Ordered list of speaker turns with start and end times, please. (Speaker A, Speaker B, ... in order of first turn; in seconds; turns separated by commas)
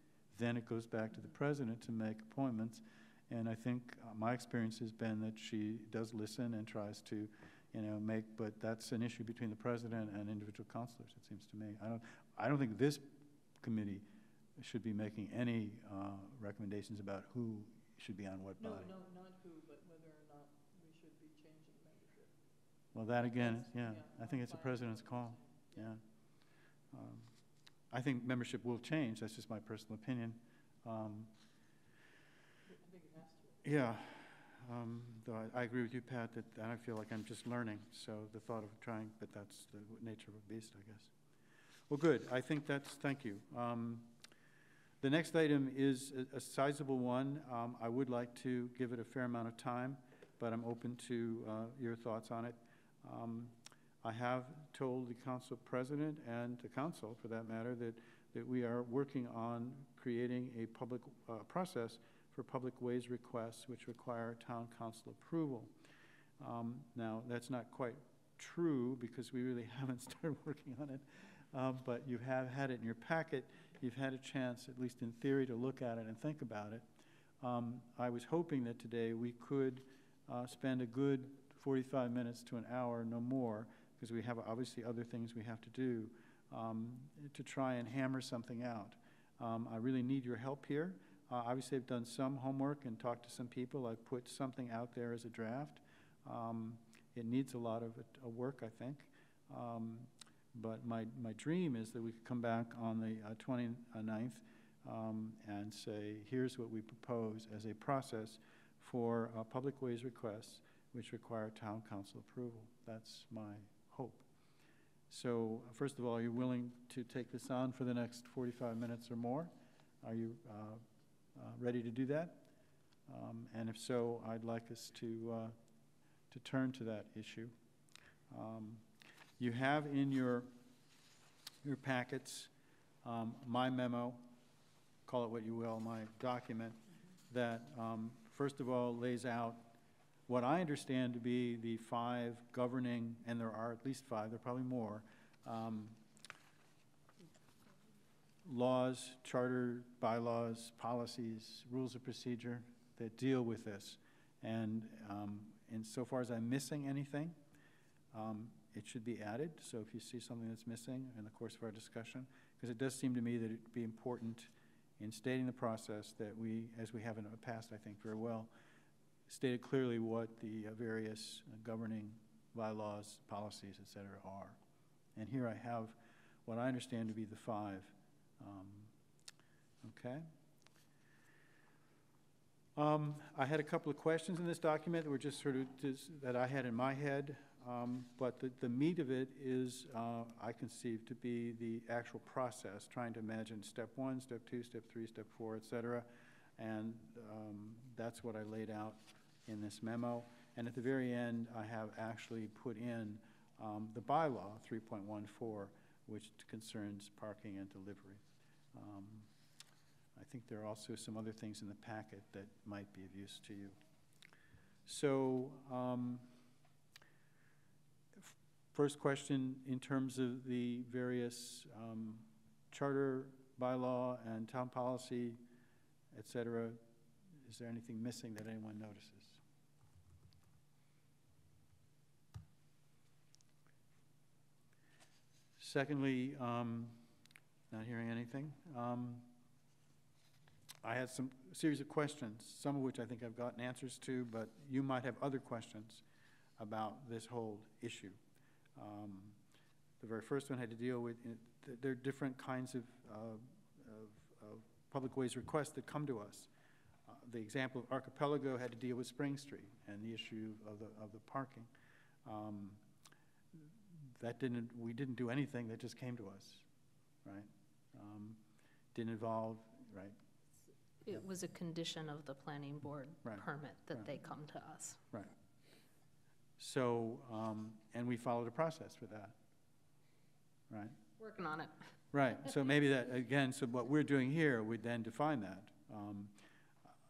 Speaker A: 0.3-14.1, Speaker A: 14.6-18.9, Speaker B: 18.6-22.4, Speaker A: 22.9-26.0, Speaker B: 23.3-26.0, Speaker A: 26.9-27.3, Speaker A: 27.9-31.3, Speaker B: 32.7-33.7, Speaker A: 33.6-41.1, Speaker A: 41.9-44.1, Speaker A: 45.0-65.8, Speaker A: 66.4-76.9, Speaker A: 77.4-114.3, Speaker A: 115.1-120.8, Speaker A: 121.3-122.5, Speaker A: 123.1-125.5, Speaker A: 126.3-127.5, Speaker A: 128.3-130.6, Speaker A: 131.6-132.5, Speaker A: 133.0-134.3, Speaker A: 135.1-139.7, Speaker A: 140.3-146.0, Speaker A: 148.4-157.4, Speaker A: 158.1-168.5, Speaker A: 169.3-174.6, Speaker A: 175.2-178.9, Speaker A: 179.8-180.3, Speaker A: 182.8-209.3, Speaker A: 210.2-213.8, Speaker A: 214.9-216.3, Speaker A: 218.2-225.4, Speaker A: 226.1-226.8, Speaker A: 227.3-229.4, Speaker A: 235.6-237.1, Speaker A: 237.7-239.3, Speaker A: 240.8-246.0, Speaker A: 246.6-248.2, Speaker A: 248.8-249.4, Speaker A: 250.0-256.5, Speaker A: 257.1-261.7, Speaker A: 262.2-262.8, Speaker A: 263.5-266.7, Speaker A: 267.2-268.4, Speaker A: 268.9-270.2, Speaker C: 271.1-275.0, Speaker A: 273.2-274.1, Speaker A: 276.6-279.4, Speaker A: 280.7-281.0, Speaker C: 281.2-281.9, Speaker A: 282.1-286.4